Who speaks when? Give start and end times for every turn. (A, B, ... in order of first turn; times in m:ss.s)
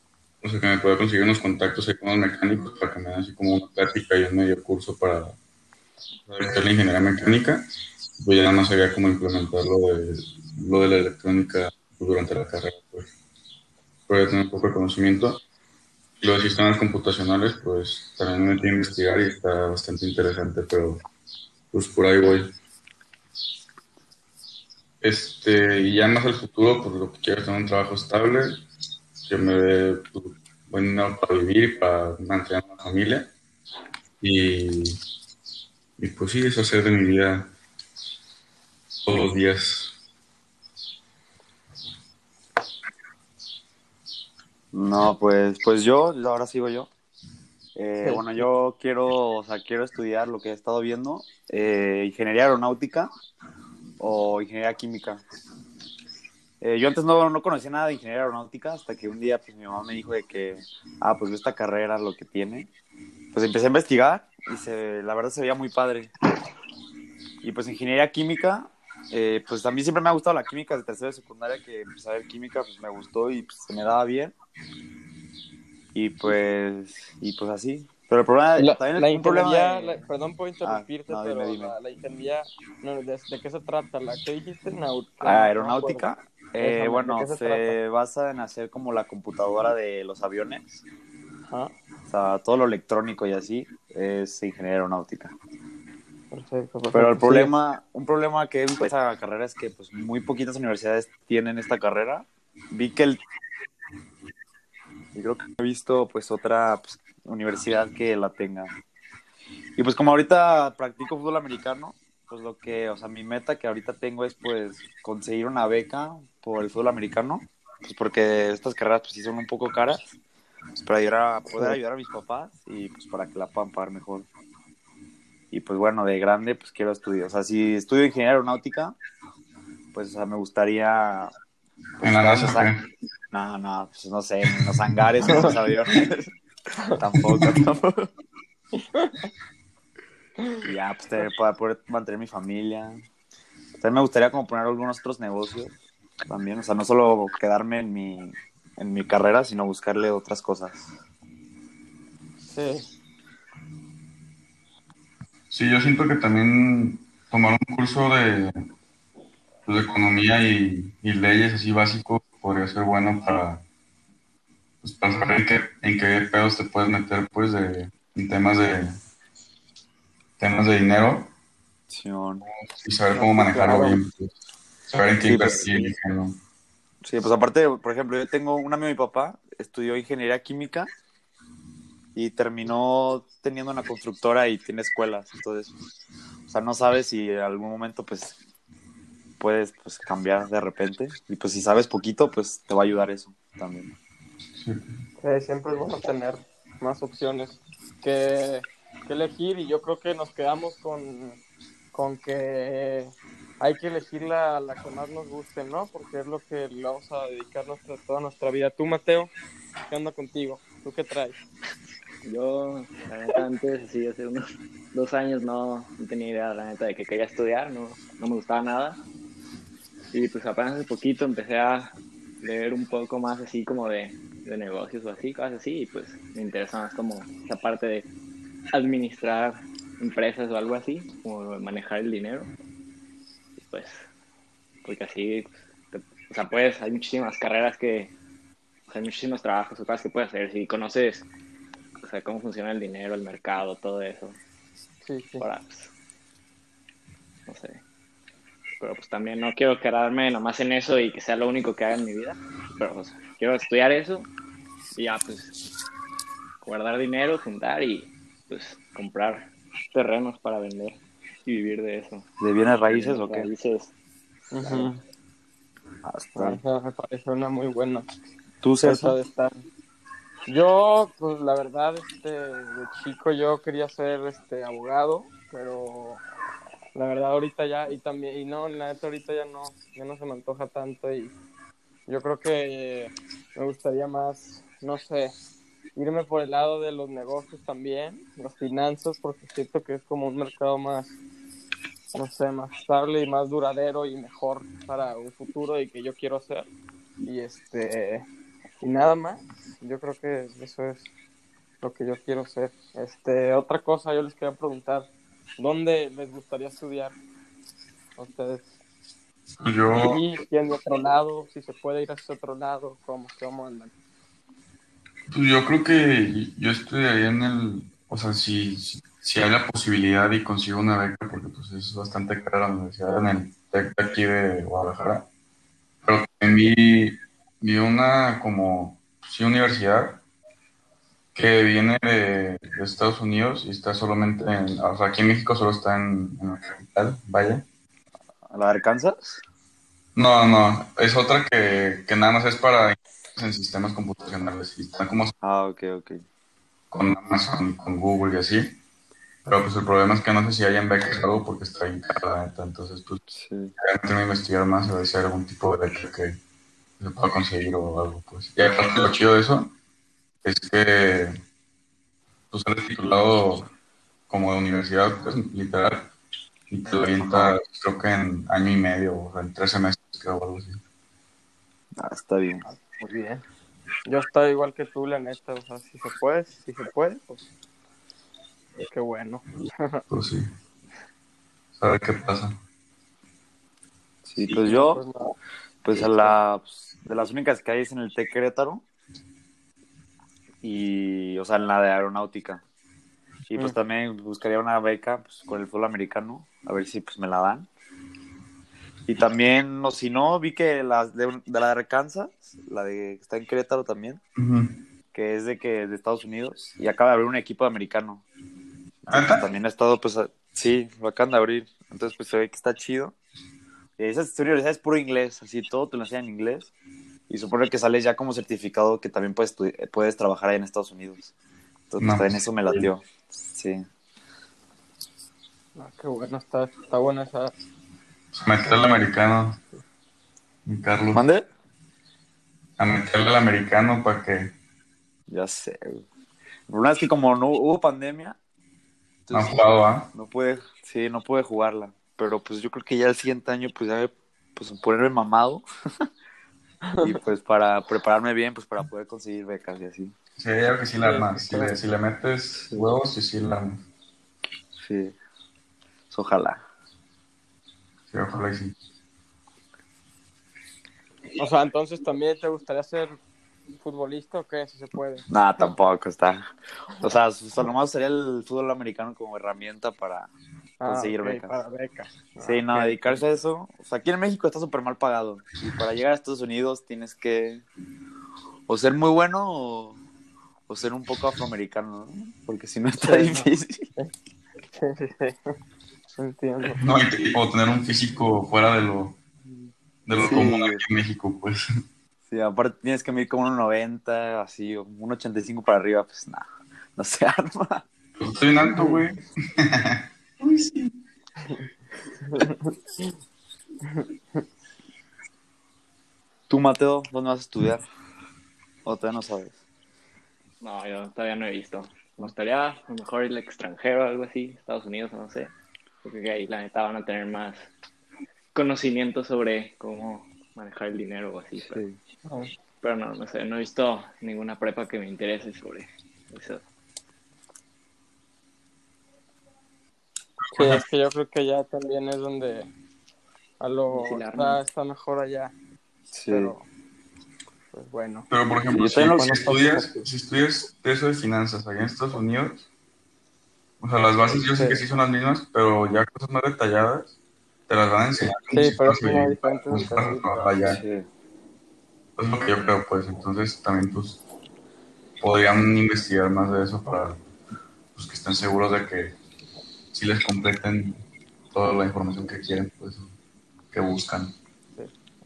0:00.4-0:05.4 A
0:06.3-0:13.1 A
0:14.1-0:15.4 A
0:16.2-0:21.0 A
0:21.7-0:22.6 A
0:25.0-0:28.6 A
0:29.3-0:33.3 A
0:34.2-0:35.0 A
0:36.0-0:37.5 A
0:39.1-0:40.0 A
0:44.7-0:46.9 B
0:47.8-0:53.1 B
0:48.0-0:48.5 C
0:54.0-0:55.2 B
0:56.6-1:02.7 B
1:03.3-1:06.1 B
1:07.4-1:14.4 B
1:15.9-1:20.0 B
1:18.6-1:26.1 C
1:20.6-1:21.8 B
1:25.2-1:30.8 B
1:26.6-1:27.8 C
1:31.5-1:31.7 C
1:32.1-1:35.4 B
1:36.3-1:37.5 C
1:36.9-1:43.2 B
1:45.1-1:48.7 B
1:49.8-2:00.0 B
2:00.8-2:04.3 B
2:05.5-2:09.0 B
2:09.9-2:11.3 B
2:12.0-2:12.7 B
2:12.0-2:12.8 A
2:13.3-2:16.3 B
2:17.0-2:18.1 B
2:18.8-2:19.3 C
2:20.6-2:23.0 B
2:23.8-2:25.8 B
2:26.3-2:30.9 B
2:32.4-2:32.9 C
2:35.5-2:38.5 A
2:39.7-2:43.6 A
2:44.8-2:49.0 A
2:50.4-2:51.3 A
2:51.9-2:52.4 B
2:52.4-2:56.4 A
2:53.2-2:54.0 C
2:55.3-2:55.9 B
2:57.0-3:00.9 B
3:02.2-3:05.7 B
3:06.5-3:08.4 B
3:09.4-3:13.9 B
3:14.6-3:15.0 A
3:15.2-3:21.4 C
3:21.9-3:29.3 C
3:29.9-3:31.4 C
3:32.2-3:34.4 D
3:34.9-3:39.0 D
3:40.1-3:48.1 D
3:48.7-3:52.5 D
3:53.6-3:54.0 D
3:54.8-3:58.1 D
3:58.9-4:01.3 D
4:02.0-4:04.4 D
4:05.0-4:05.5 C
4:05.4-4:05.9 D
4:07.5-4:07.8 D
4:08.8-4:14.3 D
4:15.0-4:15.5 D
4:16.6-4:22.2 D
4:22.4-4:23.5 B
4:22.9-4:23.9 D
4:24.5-4:25.0 C
4:24.6-4:24.9 B
4:26.0-4:26.6 B
4:26.4-4:28.1 C
4:28.6-4:29.2 B
4:28.8-4:29.6 C
4:30.5-4:36.2 C
4:37.0-4:41.3 C
4:42.1-4:45.3 C
4:46.0-4:51.2 C
4:52.1-4:56.7 C
4:57.2-4:58.3 C
4:58.8-5:01.1 C
5:01.8-5:07.2 C
5:08.2-5:08.7 C
5:09.6-5:10.2 A
5:09.9-5:13.9 C
5:15.3-5:25.3 A
5:26.0-5:30.2 A
5:31.4-5:37.7 A
5:38.5-5:39.4 B
5:40.2-5:45.3 A
5:45.4-5:46.2 B
5:46.9-5:48.8 A
5:49.4-5:53.2 A
5:53.3-5:53.7 B
5:53.8-5:56.4 A
5:57.0-5:59.8 A
6:00.4-6:01.4 A
6:02.5-6:03.7 A
6:04.3-6:06.1 A
6:06.7-6:10.8 A
6:07.2-6:07.6 B
6:12.0-6:12.7 B
6:12.6-6:13.4 C
6:14.0-6:17.4 C
6:18.9-6:20.0 C
6:20.1-6:20.5 A
6:21.8-6:22.6 A
6:24.3-6:25.0 B
6:24.5-6:25.3 C
6:25.8-6:28.8 B
6:26.0-6:26.4 C
6:30.6-6:32.6 B
6:33.5-6:37.7 B
6:39.1-6:44.2 B
6:44.4-6:44.8 A
6:45.1-6:48.2 B
6:49.0-6:53.2 B
6:49.1-6:49.4 A
6:54.0-6:56.7 B
6:57.3-7:01.3 B
7:01.9-7:03.8 B
7:02.0-7:02.9 A
7:05.8-7:07.5 C
7:08.3-7:09.6 A
7:10.6-7:11.2 A
7:11.1-7:11.5 B
7:12.8-7:14.5 A
7:15.3-7:16.0 B
7:16.7-7:18.4 B
7:19.3-7:19.6 B
7:19.3-7:20.1 A
7:20.1-7:25.6 B
7:26.8-7:27.2 C
7:27.0-7:30.1 B
7:30.4-7:33.9 A
7:31.0-7:31.8 C
7:32.6-7:32.9 B
7:34.8-7:35.2 B
7:36.1-7:36.6 B
7:38.1-7:38.8 A
7:41.4-7:43.2 C
7:43.8-7:45.7 C
7:45.3-7:46.5 B
7:47.0-7:50.3 B
7:50.8-7:53.2 C
7:50.8-7:51.6 B
7:52.4-7:57.6 B
7:58.7-8:00.0 B
8:00.7-8:03.9 B
8:03.0-8:04.1 C
8:04.8-8:05.4 C
8:06.2-8:06.8 C
8:06.7-8:09.2 A
8:10.1-8:11.6 A
8:10.2-8:10.8 B
8:12.3-8:17.8 B
8:18.2-8:20.9 A
8:18.6-8:19.0 C
8:22.3-8:22.7 C
8:23.8-8:24.4 C
8:26.5-8:27.8 B
8:28.8-8:29.6 B
8:30.6-8:35.5 D
8:36.0-8:37.7 D
8:38.5-8:41.8 D
8:41.6-8:42.0 B
8:42.2-8:42.5 C
8:42.8-8:46.6 D
8:50.4-8:50.8 A
8:50.5-8:52.7 C
8:53.6-8:55.6 C
8:53.9-8:54.6 D
8:56.1-8:56.5 B
8:56.3-8:56.6 C
8:57.7-8:58.3 C
8:58.3-9:02.7 A
8:58.7-9:00.0 B
9:03.8-9:07.2 A
9:04.5-9:04.8 C
9:07.7-9:10.8 A
9:08.5-9:10.5 C
9:10.6-9:11.1 B
9:12.2-9:14.2 A
9:15.2-9:17.2 A
9:18.0-9:19.2 A
9:19.9-9:21.0 A
9:21.5-9:23.1 A
9:23.7-9:24.3 A